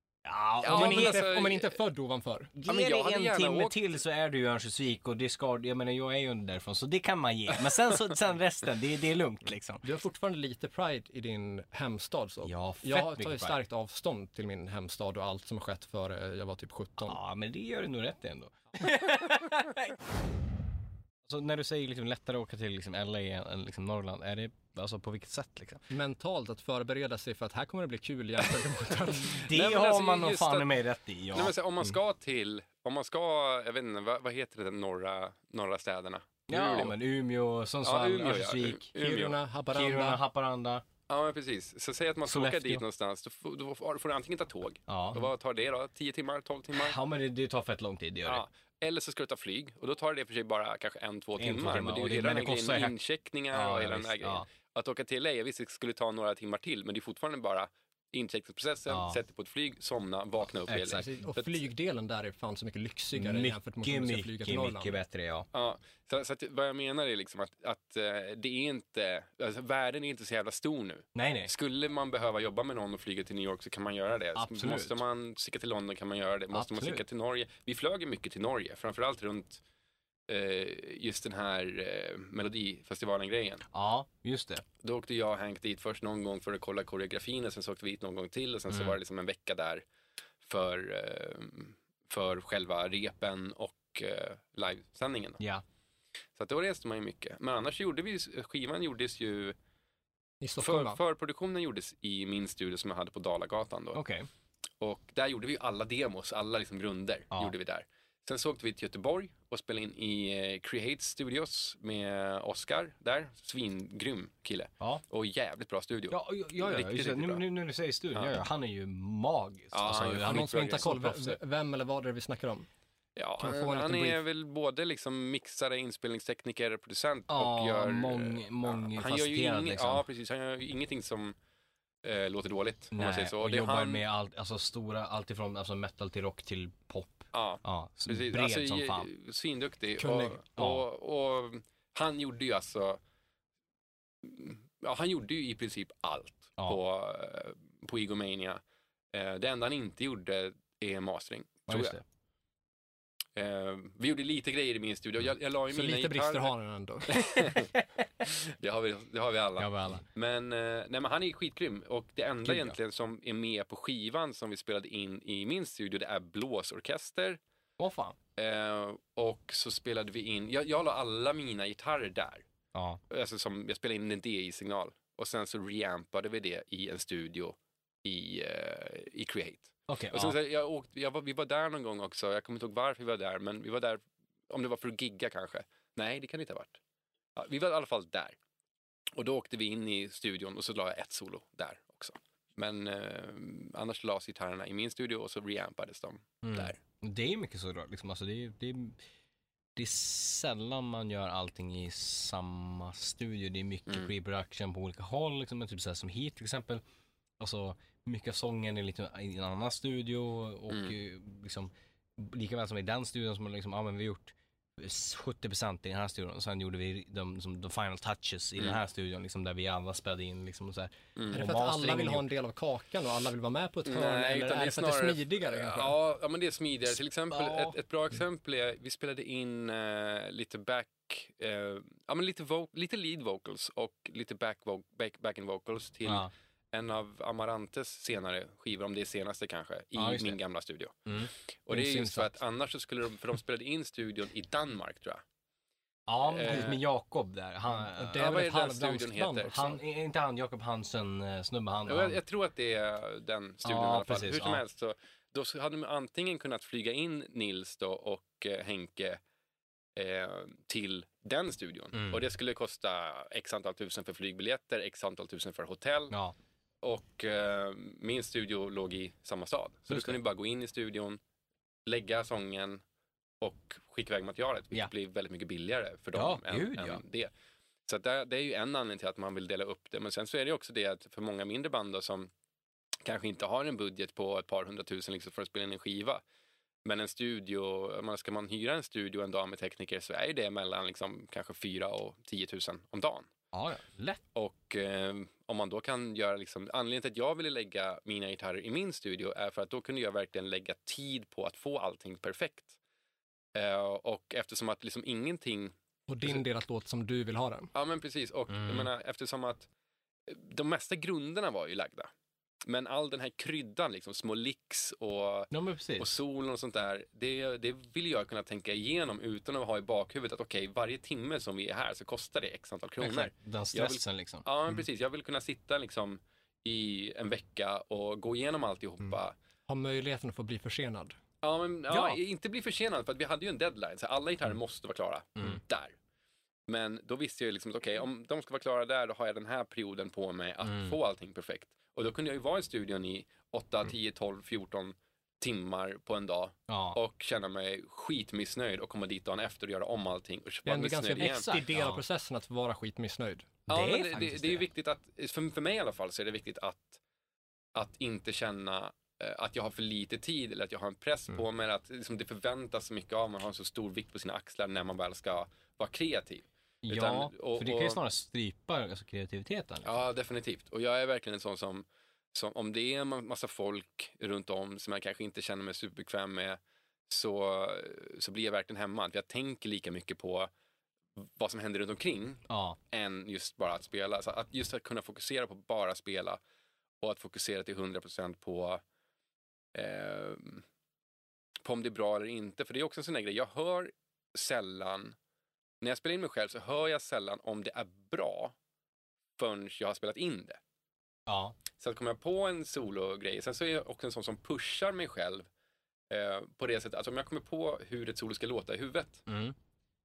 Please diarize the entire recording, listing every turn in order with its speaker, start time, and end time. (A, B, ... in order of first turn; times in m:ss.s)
0:00.2-0:01.3 A
0:00.6-0:01.8 B
0:00.6-0:02.5 C
0:02.6-0:09.8 A
0:02.6-0:03.8 B
0:09.8-0:17.2 C
0:12.4-0:13.6 A
0:17.0-0:20.0 A
0:21.3-0:25.8 A
0:25.9-0:29.5 C
0:29.3-0:31.6 A
0:29.4-0:30.7 B
0:31.3-0:37.0 B
0:36.5-0:38.9 A
0:37.8-0:39.4 B
0:39.0-0:40.2 C
0:39.7-0:40.8 A
0:41.1-0:47.0 B
0:42.3-0:42.8 A
0:44.9-0:45.3 A
0:46.7-0:48.4 A
0:48.3-1:01.6 B
0:51.4-0:53.0 A
0:53.5-0:54.5 A
0:58.9-0:59.2 A
1:00.7-1:01.0 A
1:00.9-1:04.9 C
1:03.1-1:05.5 A
1:05.5-1:19.6 B
1:11.1-1:11.5 A
1:14.4-1:15.0 A
1:16.5-1:17.0 A
1:20.3-1:23.6 B
1:23.7-1:24.6 A
1:24.8-1:29.8 B
1:28.7-1:29.0 A
1:30.4-1:35.4 B
1:36.4-1:39.6 B
1:40.4-1:41.0 C
1:40.6-1:44.0 B
1:43.9-1:44.3 A
1:44.8-1:57.4 B
1:56.1-2:00.9 A
1:58.1-1:58.4 B
1:59.7-2:01.4 B
2:00.1-2:02.7 C
2:03.2-2:11.4 B
2:03.4-2:04.2 C
2:07.3-2:10.0 A
2:12.0-2:14.0 B
2:12.9-2:19.1 A
2:17.3-2:23.0 B
2:20.0-2:20.4 C
2:20.6-2:20.9 A
2:24.2-2:28.6 B
2:29.1-2:32.0 B
2:31.7-2:32.0 A
2:33.4-2:36.5 B
2:35.7-2:37.5 C
2:37.1-2:47.4 B
2:39.6-2:40.1 A
2:42.4-2:42.8 A
2:47.8-2:48.2 A
2:48.4-2:52.5 B
2:52.8-2:53.0 A
2:53.1-3:06.8 B
2:59.9-3:00.4 A
3:07.4-3:08.4 B
3:09.2-3:16.8 B
3:16.4-3:19.0 A
3:19.8-3:26.8 A
3:27.4-3:42.3 A
3:41.2-3:41.4 B
3:41.3-3:46.0 C
3:43.9-4:05.2 B
3:47.3-3:47.8 A
3:56.0-3:56.3 A
4:00.0-4:00.4 A
4:01.7-4:02.4 C
4:06.1-4:08.3 A
4:06.3-4:06.8 B
4:07.8-4:09.8 C
4:08.2-4:09.7 B
4:09.5-4:12.2 A
4:11.9-4:19.2 B
4:13.6-4:14.6 A
4:20.0-4:26.1 B
4:21.9-4:22.2 A
4:26.8-4:31.2 B
4:29.9-4:30.2 A
4:31.9-4:32.8 B
4:33.4-4:37.3 B
4:36.1-4:37.0 A
4:37.9-4:42.3 B
4:43.0-4:46.2 B
4:46.8-4:53.3 B
4:53.5-4:54.2 A
4:54.4-5:02.8 B
5:03.5-5:05.7 B
5:06.1-5:07.7 C
5:07.7-5:09.7 B
5:08.5-5:08.9 A
5:10.3-5:12.1 B
5:12.6-5:29.4 B
5:15.5-5:16.1 A
5:23.0-5:24.4 A
5:29.7-5:31.2 C
5:31.4-5:36.0 B
5:31.9-5:32.2 A
5:36.7-5:51.5 B
5:40.6-5:41.0 A
5:46.7-5:47.0 A
5:50.6-5:53.5 C
5:51.2-5:52.0 A
5:53.7-5:54.6 A
5:53.7-5:57.0 B
5:57.8-6:08.0 B
6:06.8-6:09.9 A
6:09.8-6:20.5 B
6:21.2-6:26.4 B
6:22.5-6:22.8 A
6:27.0-6:28.8 B
6:29.7-6:30.6 B
6:31.6-6:35.2 B
6:35.8-6:38.5 B
6:39.4-6:40.6 B
6:41.3-6:41.6 A
6:41.8-6:45.5 B
6:46.1-6:49.2 B
6:49.3-6:49.6 A